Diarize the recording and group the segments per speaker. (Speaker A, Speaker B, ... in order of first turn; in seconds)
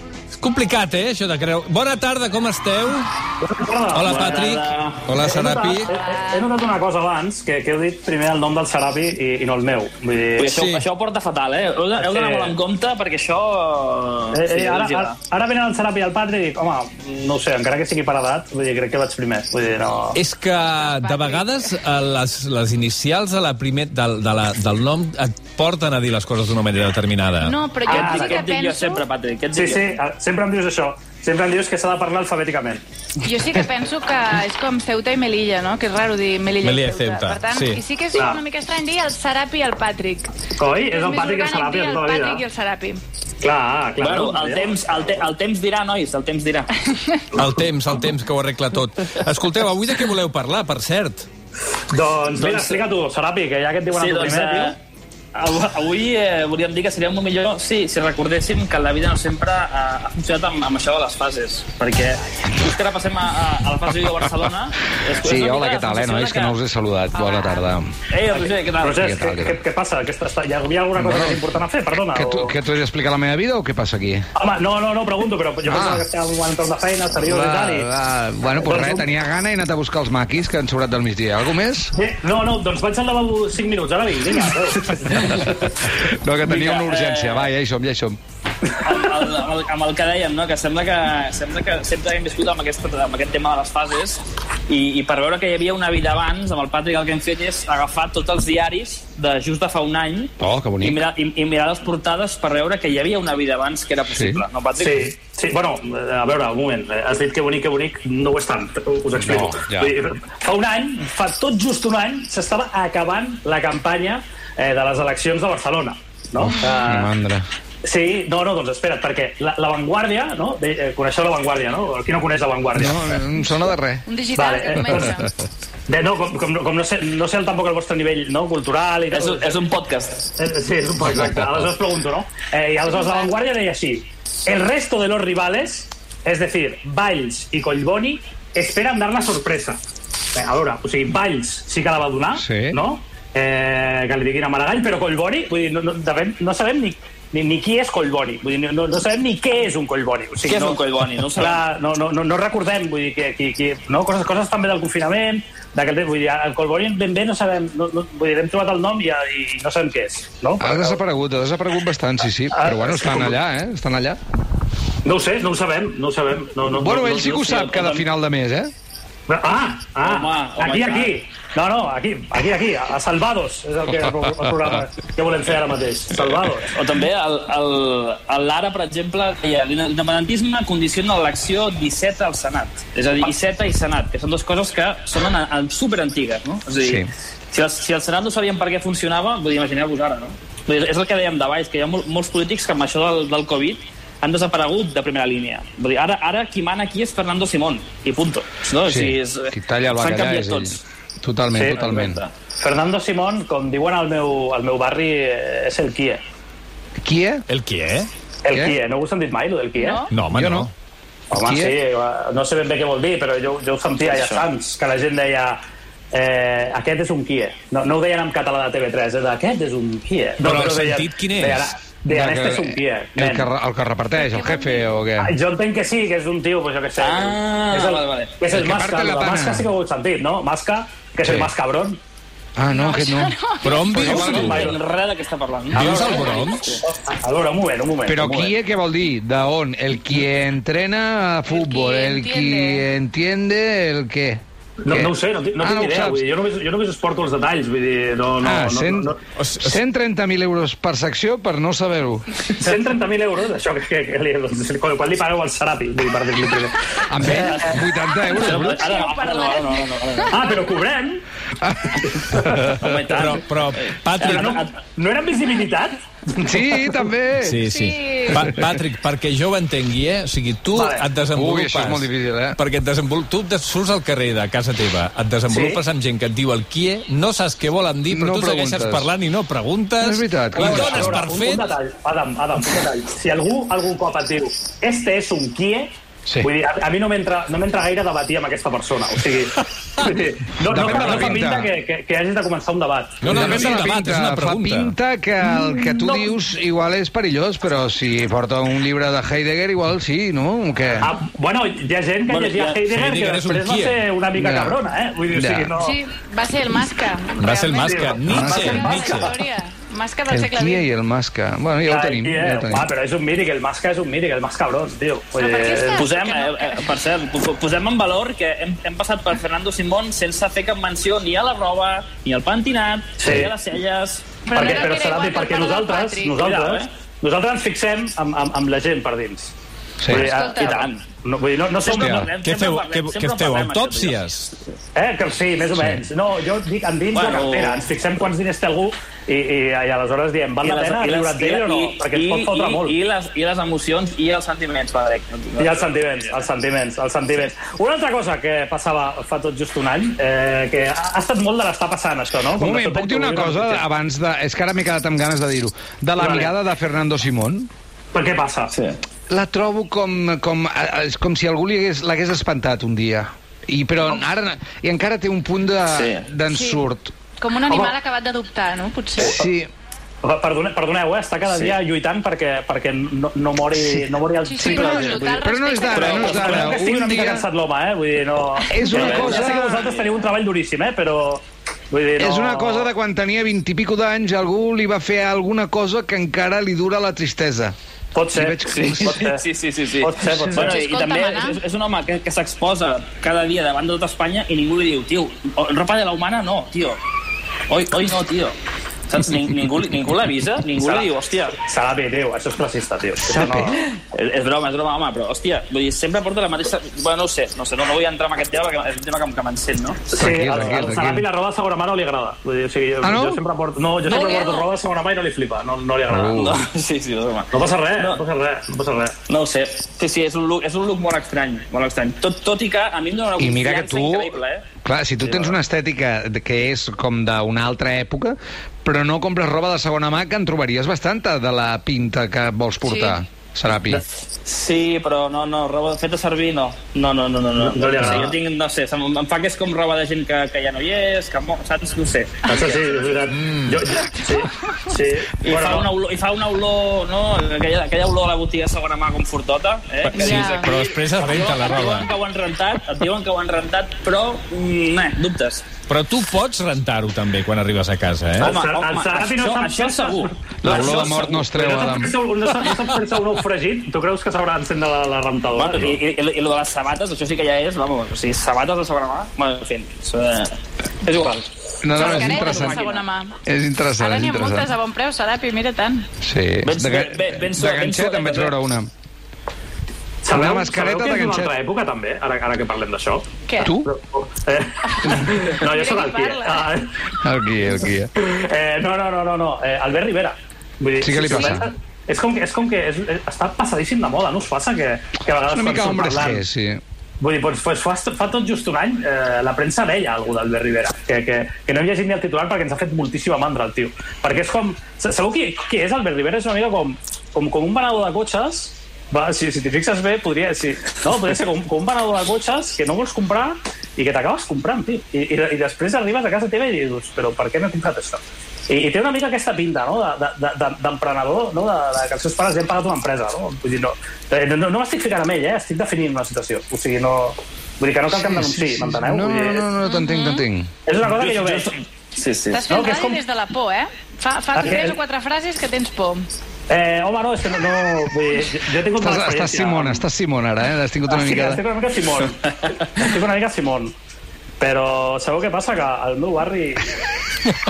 Speaker A: 0.3-3.1, 3.9-5.9, 10.5-10.8, 20.1-27.6, 36.6-37.8, 47.3-51.3, 207.5-208.1, 210.1-210.7, 220.4-221.7, 233.6-234.7, 235.7-236.7, 249.4-249.8, 263.1-264.6, 267.4-281.7, 293.2-294.9, 302.9-304.0, 307.4-309.3, 332.2-334.6, 443.3-443.8, 450.1-452.1, 455.9-458.5
Speaker B: 3.4-4.2, 5.2-10.5, 11.9-12.6, 14.3-20.2, 27.9-28.4, 29.5-32.8, 38.1-38.4, 40.6-42.4, 43.4-45.2, 51.9-54.8, 68.4-72.5, 74.4-77.9, 78.6-79.0, 81.9-85.5, 104.8-117.1, 117.8-123.2, 124.4-125.2, 125.9-129.6, 130.4-139.8, 140.3-150.8, 151.3-161.0, 162.5-163.4, 165.0-167.3, 169.3-176.7, 201.5-201.9, 202.6-206.2, 208.4-210.1, 211.3-223.5, 225.2-232.0, 233.9-234.8, 235.7-238.5, 244.8-249.2, 252.5-257.8, 260.3-261.2, 262.1-263.3, 264.2-266.9, 270.7-271.1, 275.5-275.8, 280.6-293.7, 295.5-296.4, 301.0-306.0, 307.8-309.3, 311.9-316.0, 323.2-323.5, 324.5-329.5, 330.1-332.2, 334.9-343.0, 345.6-353.9, 356.2-356.5, 358.1-358.7, 367.7-367.9, 369.2-369.5, 370.2-375.3, 376.1-382.9, 388.1-389.4, 390.0-390.8, 400.8-403.8, 410.1-416.6, 417.5-419.2, 437.6-438.4, 442.5-445.9, 458.4-466.0, 480.2-487.0, 488.2-496.4, 497.2-529.7, 530.9-531.7, 532.7-533.2, 534.5-535.0, 536.7-540.0, 541.1-543.9, 544.6-546.9
Speaker C: 4.0-5.0, 10.4-15.2, 27.9-29.9, 44.0-46.7, 52.3-52.8, 53.9-54.8, 55.3-66.6, 68.1-69.0, 86.5-87.5, 88.8-105.1, 129.1-130.3, 150.4-151.6, 167.2-168.1, 170.0-171.2, 176.7-200.8, 201.5-202.3, 214.1-214.4, 227.0-228.3, 234.0-236.8, 258.3-260.4, 262.8-264.7, 302.3-302.8, 315.9-324.3, 326.4-326.9, 330.6-331.0, 331.8-334.2, 337.1-337.9, 340.6-346.5, 358.7-359.0, 365.9-366.2, 371.5-371.8, 375.9-376.9, 378.9-380.1, 388.7-397.0, 397.7-398.6, 399.1-401.6, 404.1-410.0, 414.1-414.6, 416.3-418.2, 419.3-424.6, 434.4-443.1, 445.4-455.7, 458.4-461.4, 465.5-473.0, 476.6-478.6, 531.0-532.6
Speaker D: 5.8-6.5, 20.8-21.6, 27.4-29.0, 33.2-40.3, 40.9-43.0, 47.0-47.2, 67.1-67.6, 116.6-117.0, 124.0-125.4, 132.9-133.3, 209.8-210.1, 224.2-224.9, 232.7-234.2, 241.5-242.8, 258.2-260.6, 267.7-268.5, 305.8-310.9, 315.4-316.9, 324.4-326.4, 330.2-330.8, 366.5-366.8, 367.4-369.3, 374.4-376.5, 378.7-379.3, 390.6-391.6, 414.1-414.6, 432.8-433.2, 444.0-444.9, 450.2-450.7, 471.9-473.4, 474.0-476.1, 483.5-483.7, 484.8-486.7, 491.2-491.6, 529.8-530.4, 532.5-536.2
Speaker E: 65.2-67.9, 69.0-69.6, 71.0-71.4, 72.1-74.3, 75.7-76.1, 77.2-81.9, 85.0-88.2, 100.4-101.0, 104.1-104.4, 109.2-109.9, 116.4-117.5, 122.7-124.1, 131.1-131.6, 142.3-142.8, 160.6-164.2, 166.7-168.7, 186.8-187.1, 198.8-202.2, 207.0-207.4, 208.5-208.8, 210.3-210.7, 211.3-211.8, 222.1-225.3, 228.5-229.7, 231.2-231.5, 232.6-233.4, 233.9-234.7, 238.1-246.2, 248.4-252.4, 257.1-258.9, 261.6-262.9, 266.4-267.6, 271.3-272.6, 278.1-279.1, 280.0-281.2, 290.7-291.7, 293.2-301.1, 304.3-304.8, 305.3-305.7, 308.3-308.9, 310.3-312.9, 330.0-330.3, 331.9-332.3, 352.6-357.7, 359.3-367.1, 369.2-369.7, 374.6-377.4, 378.7-379.9, 382.2-387.8, 388.3-389.2, 403.3-403.9, 410.2-411.3, 413.0-413.4, 416.1-416.6, 423.4-434.0, 460.6-462.1, 471.8-472.9, 473.4-474.7, 476.2-478.9, 480.3-481.5, 483.6-483.9, 487.2-488.1, 491.0-491.7, 495.5-496.8, 528.1-530.7, 539.0-541.6